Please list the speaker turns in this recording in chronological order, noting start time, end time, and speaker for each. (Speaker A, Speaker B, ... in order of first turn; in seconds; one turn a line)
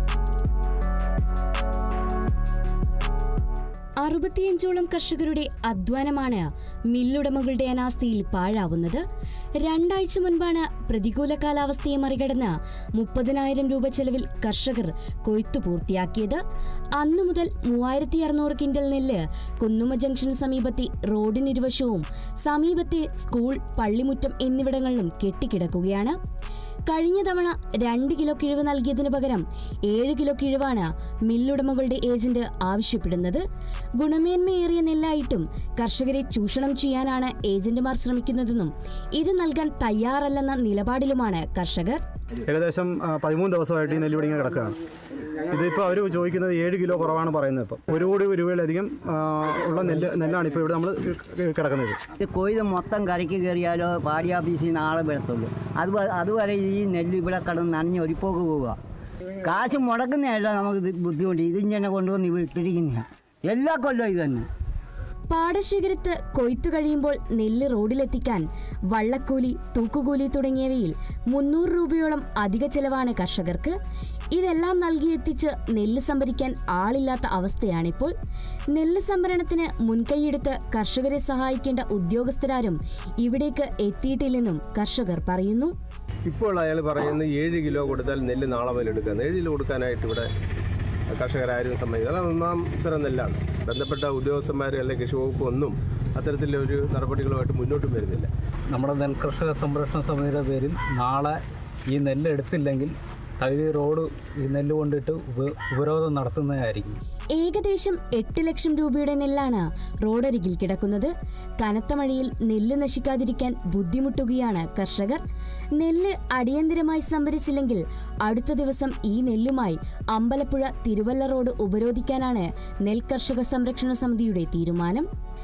Speaker A: 4.0-9.0
Speaker A: 9.6-16.4
Speaker A: 17.0-26.1
Speaker A: 26.9-33.4
Speaker A: 34.0-42.0
Speaker B: 42.5-44.8
Speaker B: 45.5-52.0
Speaker C: 52.2-58.8
Speaker C: 59.4-64.5
Speaker A: 65.3-73.8
Speaker A: 74.3-78.1
Speaker A: 78.7-85.7
Speaker D: 86.3-90.3
Speaker D: 91.1-98.3
Speaker E: 98.7-101.4
Speaker E: 101.9-107.0
Speaker A: 107.3-115.2
Speaker A: 115.8-125.1